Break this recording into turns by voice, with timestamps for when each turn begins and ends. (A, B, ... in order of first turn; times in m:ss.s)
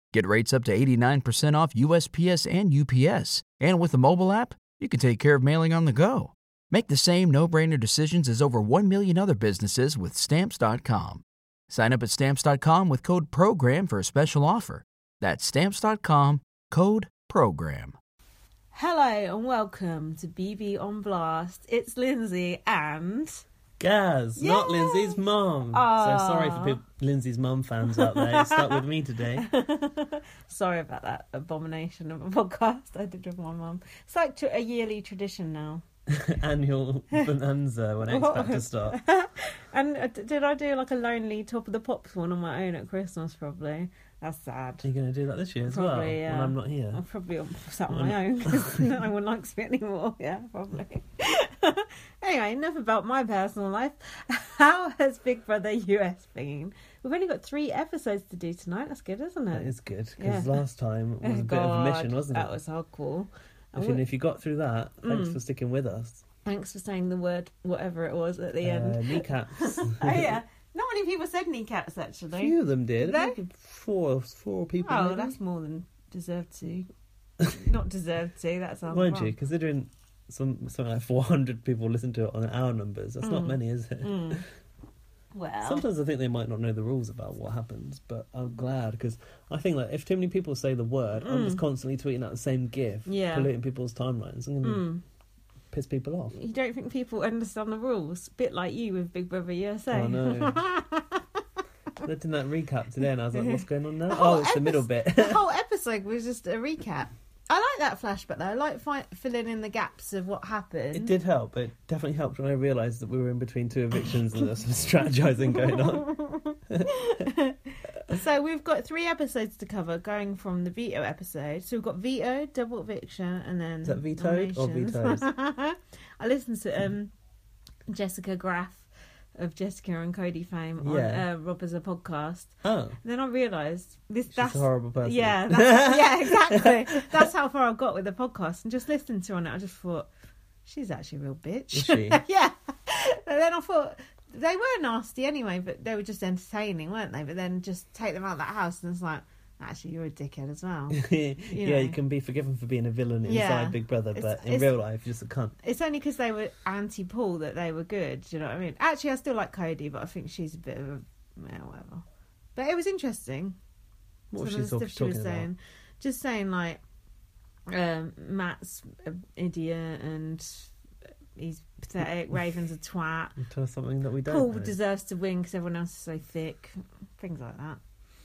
0:00.1-0:18.0 A
0:18.7-0:23.4 B
0:23.8-0:29.5 C
0:24.4-0:25.2 B
0:25.7-0:26.8 B
0:27.9-0:28.8 B
0:29.4-0:35.8 B
0:36.1-0:39.0 C
0:38.1-0:44.8 B
0:44.8-0:47.0 C
0:45.7-1:00.6 B
0:47.9-0:49.0 C
0:59.5-1:02.5 C
1:01.2-1:04.0 B
1:03.8-1:06.2 C
1:05.0-1:05.4 B
1:06.4-1:13.4 B
1:08.6-1:10.4 C
1:12.4-1:15.4 C
1:14.8-1:16.9 B
1:17.5-1:19.4 B
1:18.9-1:24.5 C
1:23.2-1:24.4 B
1:25.3-1:25.9 B
1:25.6-1:34.8 C
1:31.2-1:31.6 B
1:33.1-1:33.5 B
1:34.6-1:35.0 B
1:35.7-1:36.4 C
1:36.3-1:41.2 B
1:39.9-1:40.6 C
1:42.0-1:45.4 C
1:43.3-1:51.1 B
1:50.9-1:56.1 C
1:56.0-2:07.1 B
2:03.8-2:05.3 C
2:07.9-2:20.1 B
2:10.8-2:11.3 C
2:12.6-2:13.0 C
2:14.3-2:17.3 C
2:20.6-2:32.0 B
2:21.7-2:22.2 C
2:30.9-2:35.6 C
2:33.2-2:34.7 B
2:35.6-2:42.0 B
2:42.6-2:43.6 B
2:44.3-2:45.5 C
2:44.4-2:46.8 B
2:47.7-2:50.7 B
2:51.4-2:53.4 B
2:53.4-2:54.8 C
2:54.3-2:57.8 B